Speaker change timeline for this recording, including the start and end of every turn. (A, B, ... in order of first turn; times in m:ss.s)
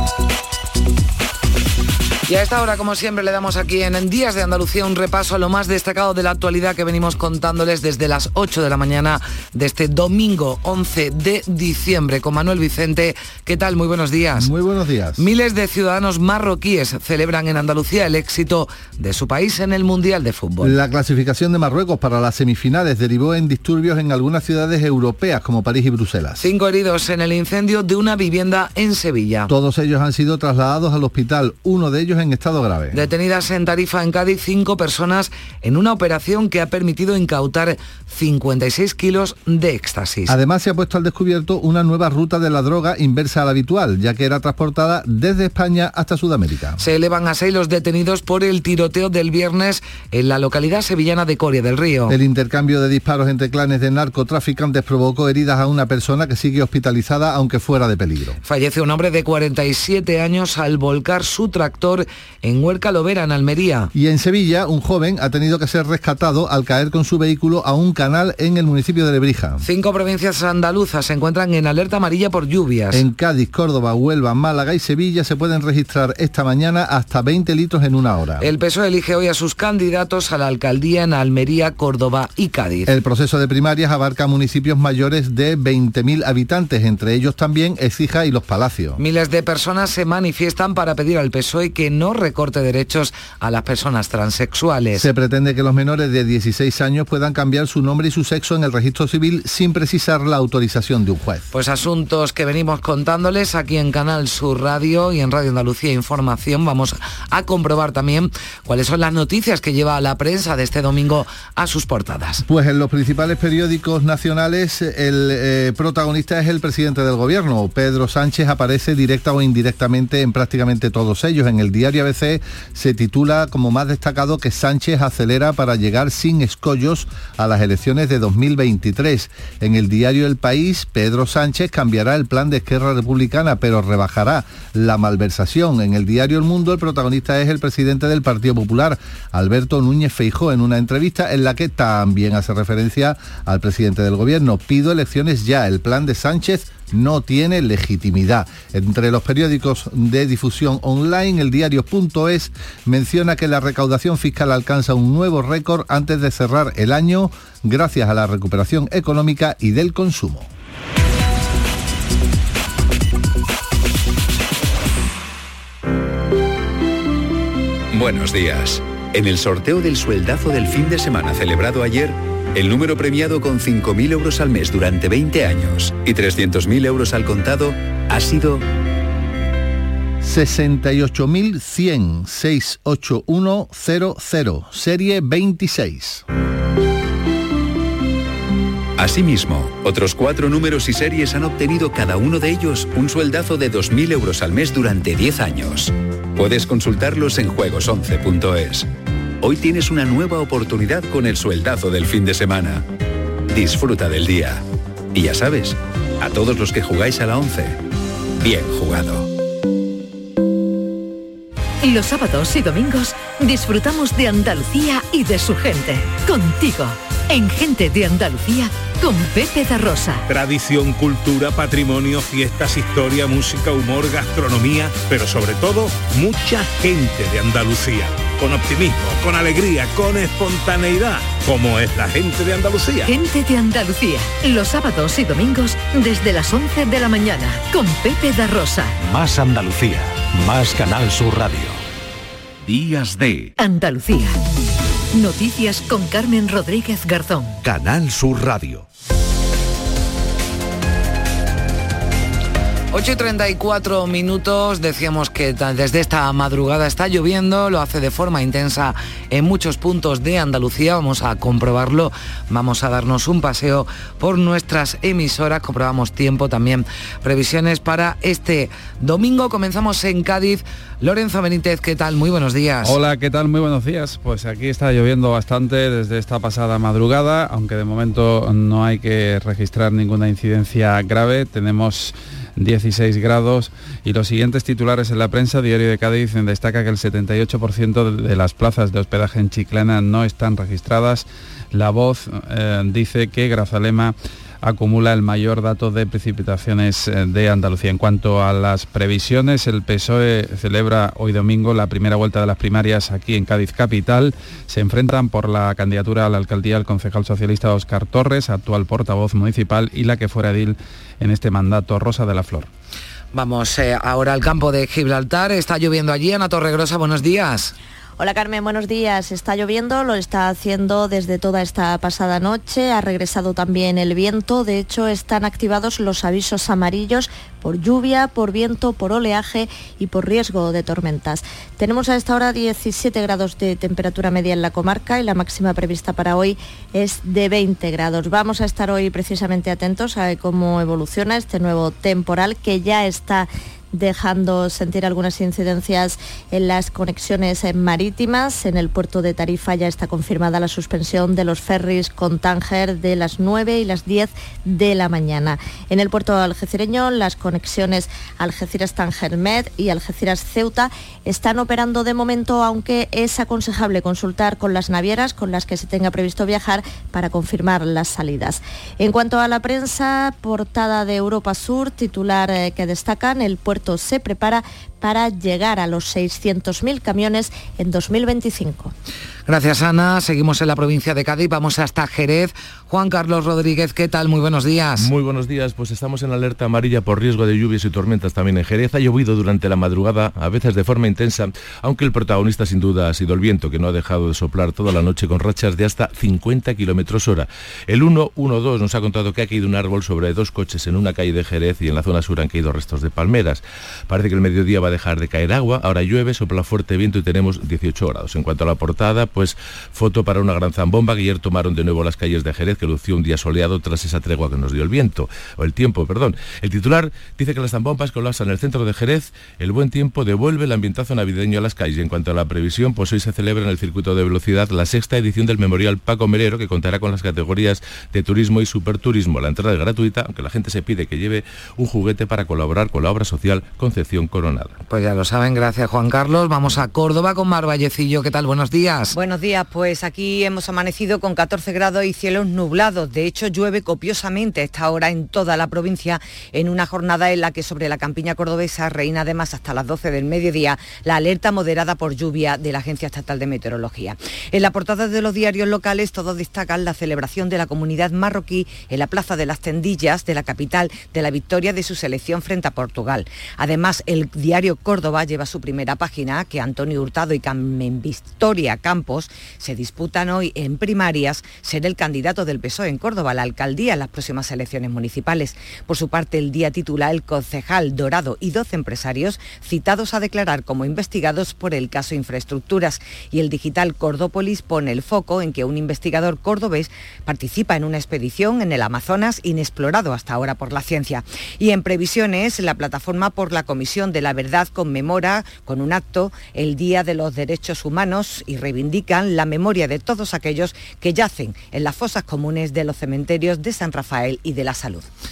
0:02.3-0:14.5 A
0:14.4-0:15.2 B
0:15.2-0:20.8 A
0:20.6-0:26.5 B
0:26.4-0:29.5 A
0:29.5-0:33.0 B
0:32.9-0:40.3 A
0:40.3-0:46.8 B
0:46.8-0:52.1 A
0:52.1-0:58.4 B
0:58.4-1:03.9 A
1:03.9-1:09.6 B
1:09.6-1:13.0 A
1:12.9-1:18.5 B
1:18.4-1:22.9 A
1:22.9-1:29.0 B
1:29.0-1:35.1 A
1:35.0-1:41.5 B
1:41.5-1:52.4 A
1:52.4-2:40.5 B
2:47.9-2:58.6 C
3:00.2-3:06.2 B
3:09.0-3:18.8 C
3:19.4-3:22.8 C
3:23.5-3:24.6 C
3:25.1-3:27.8 C
3:28.4-3:29.3 C
3:31.8-3:40.3 D
3:40.3-3:53.0 E
3:53.0-3:59.0 D
3:59.0-4:01.8 F
4:02.6-4:03.5 F
4:03.6-4:04.4 D
4:05.1-4:07.6 D
4:07.6-4:08.8 F
4:12.9-4:33.0 A
4:32.8-5:12.7 G
5:13.3-5:17.7 A
5:18.2-6:18.9 H
6:19.5-6:25.1 A
6:25.0-7:14.7 I
7:14.9-7:19.1 A
7:19.1-8:25.1 J